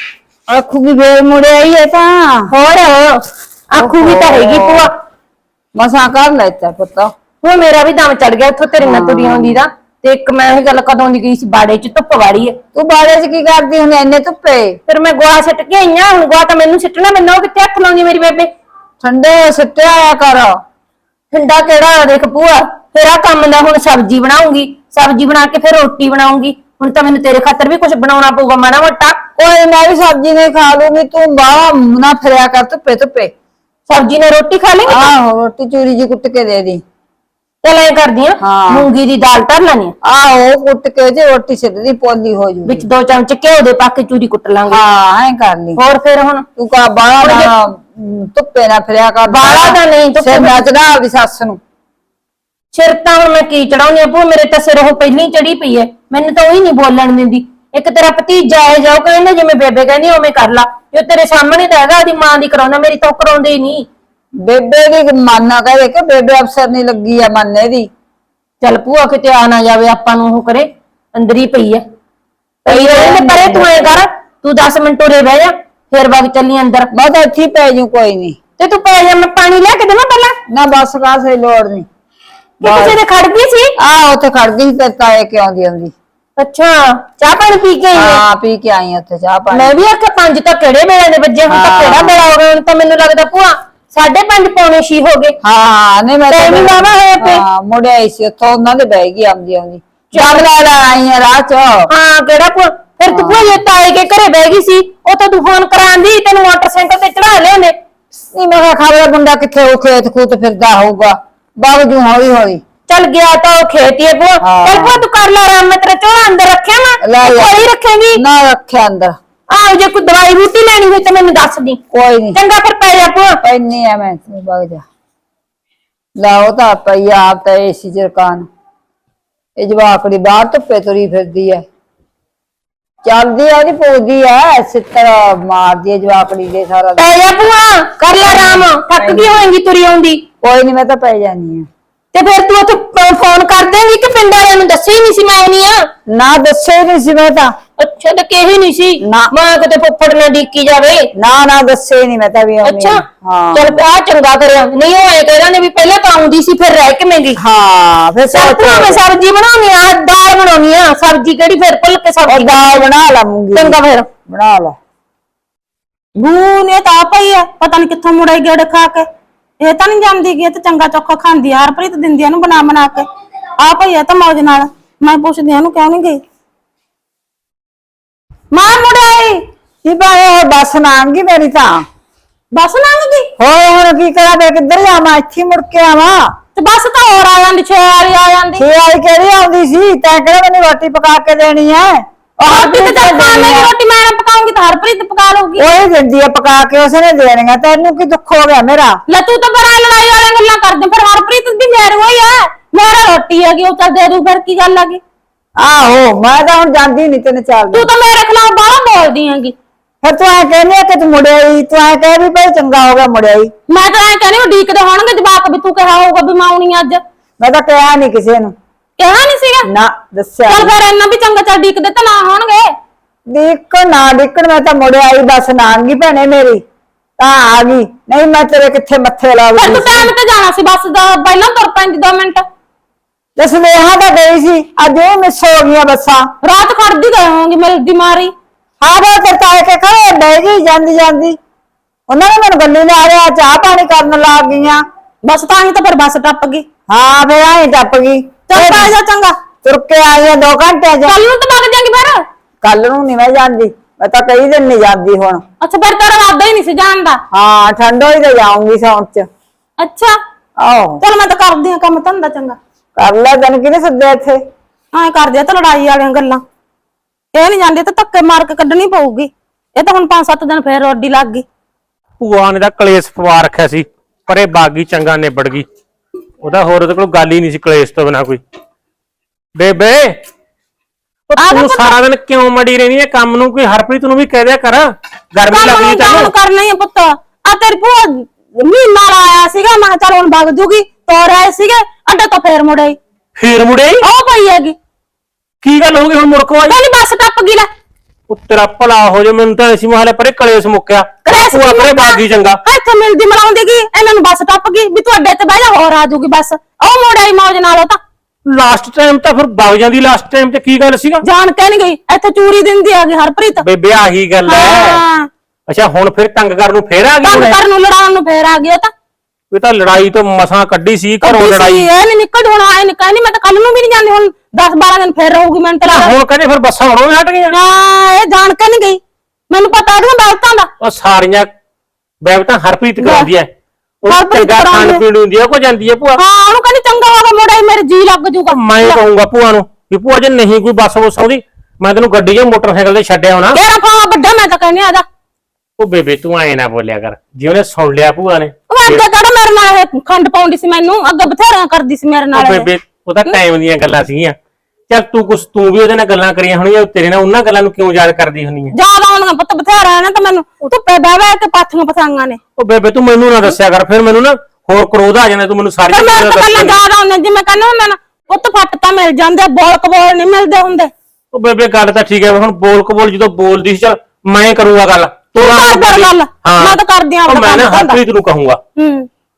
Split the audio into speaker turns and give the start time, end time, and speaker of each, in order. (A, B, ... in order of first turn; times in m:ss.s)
0:00.5-0:02.5 A
0:02.5-0:04.9 B
0:03.8-0:04.9 A
0:05.8-0:07.1 A
0:07.4-0:12.6 B
0:08.8-0:09.6 A
0:12.7-0:14.8 A
0:14.9-0:18.5 B
0:19.0-0:20.6 A
0:21.3-0:29.2 B
0:29.4-0:33.3 A
0:33.9-0:35.1 B
0:34.8-0:36.8 A
0:37.6-0:39.9 B
0:38.4-0:38.9 A
0:40.0-0:42.8 A
0:42.6-0:44.8 B
0:44.7-0:45.8 A
0:45.8-0:46.4 B
0:46.6-0:51.6 A
0:47.2-0:47.6 B
0:49.3-0:50.6 B
0:52.7-1:03.9 B
1:04.4-1:07.9 A
1:08.6-1:11.8 B
1:12.6-1:13.9 A
1:12.6-1:16.9 B
1:16.9-1:18.4 A
1:18.6-1:20.4 B
1:20.5-1:21.9 A
1:22.6-1:23.0 A
1:22.6-1:23.8 B
1:23.8-1:25.9 A
1:26.4-1:28.2 B
1:27.9-1:29.7 A
1:29.5-1:35.4 B
1:31.5-1:32.2 A
1:35.4-1:41.9 A
1:36.3-1:37.4 B
1:40.1-1:40.5 B
1:41.9-1:47.8 B
1:43.1-1:43.5 A
1:48.3-1:52.6 A
1:52.9-1:58.2 B
1:54.4-1:55.0 A
1:57.0-1:57.6 A
1:58.1-1:59.2 A
1:59.5-2:01.8 B
2:01.9-2:02.4 A
2:02.3-2:03.4 B
2:03.4-2:04.8 A
2:06.2-2:08.5 A
2:09.6-2:11.6 A
2:13.0-2:17.1 A
2:17.0-2:20.2 B
2:18.2-2:19.4 A
2:20.4-2:21.7 A
2:22.1-2:25.9 B
2:26.1-2:27.5 A
2:27.8-2:31.1 B
2:29.0-2:29.3 A
2:31.2-2:33.8 A
2:32.6-2:33.0 B
2:33.5-2:37.4 B
2:37.4-2:39.0 A
2:38.3-2:42.7 B
2:42.3-2:44.8 A
2:43.5-2:44.1 B
2:46.2-2:49.1 C
2:49.6-2:53.1 C
2:53.6-2:56.2 C
2:58.5-2:59.4 C
2:59.8-3:01.8 A
3:02.5-3:03.3 C
3:03.4-3:06.3 A
3:06.5-3:08.6 C
3:08.6-3:13.7 A
3:12.4-3:15.6 C
3:15.6-3:19.0 A
3:19.1-3:25.0 C
3:25.6-3:27.9 A
3:27.7-3:29.5 C
3:30.0-3:33.5 A
3:33.7-3:37.0 C
3:37.4-3:38.5 A
3:39.0-3:39.7 C
3:39.7-3:40.7 A
3:40.5-3:42.7 C
3:43.3-3:46.6 A
3:47.2-3:50.1 A
3:49.6-3:52.4 C
3:53.4-3:56.3 A
3:56.4-3:58.3 C
3:58.8-4:01.4 A
4:02.1-4:04.8 A
4:05.2-4:06.6 C
4:06.9-4:08.8 A
4:08.5-4:09.4 C
4:09.6-4:11.2 A
4:11.0-4:12.2 C
4:12.6-4:15.4 A
4:15.6-4:17.2 C
4:17.3-4:19.3 A
4:19.8-4:20.2 C
4:20.6-4:21.0 A
4:21.0-4:22.6 C
4:23.0-4:24.4 A
4:24.9-4:26.4 C
4:27.3-4:31.4 C
4:32.2-4:35.6 D
4:36.4-4:38.4 D
4:39.5-4:40.2 D
4:41.3-4:46.3 D
4:41.4-4:41.9 C
4:45.5-4:53.0 C
4:53.4-4:54.0 D
4:54.0-4:54.8 C
4:55.6-4:56.8 D
4:56.7-4:57.7 C
4:58.3-5:02.6 D
5:01.2-5:08.0 C
5:08.4-5:11.2 D
5:11.2-5:13.6 C
5:13.6-5:15.0 D
5:14.4-5:15.3 C
5:15.7-5:17.6 D
5:17.2-5:18.9 C
5:19.5-5:21.8 D
5:21.2-5:26.1 C
5:25.9-5:27.6 D
5:27.5-5:30.7 C
5:30.8-5:31.5 D
5:32.2-5:33.5 D
5:33.0-5:33.3 C
5:34.0-5:36.2 D
5:34.0-5:35.0 C
5:36.2-5:39.0 C
5:38.5-5:43.6 D
5:43.5-5:45.0 C
5:45.8-5:49.0 D
5:48.7-5:52.7 C
5:52.3-5:54.4 D
5:54.9-5:58.7 D
5:58.7-6:02.4 C
6:02.6-6:06.8 D
6:05.9-6:10.9 C
6:11.3-6:18.6 D
6:15.4-6:18.0 C
6:18.8-6:19.1 C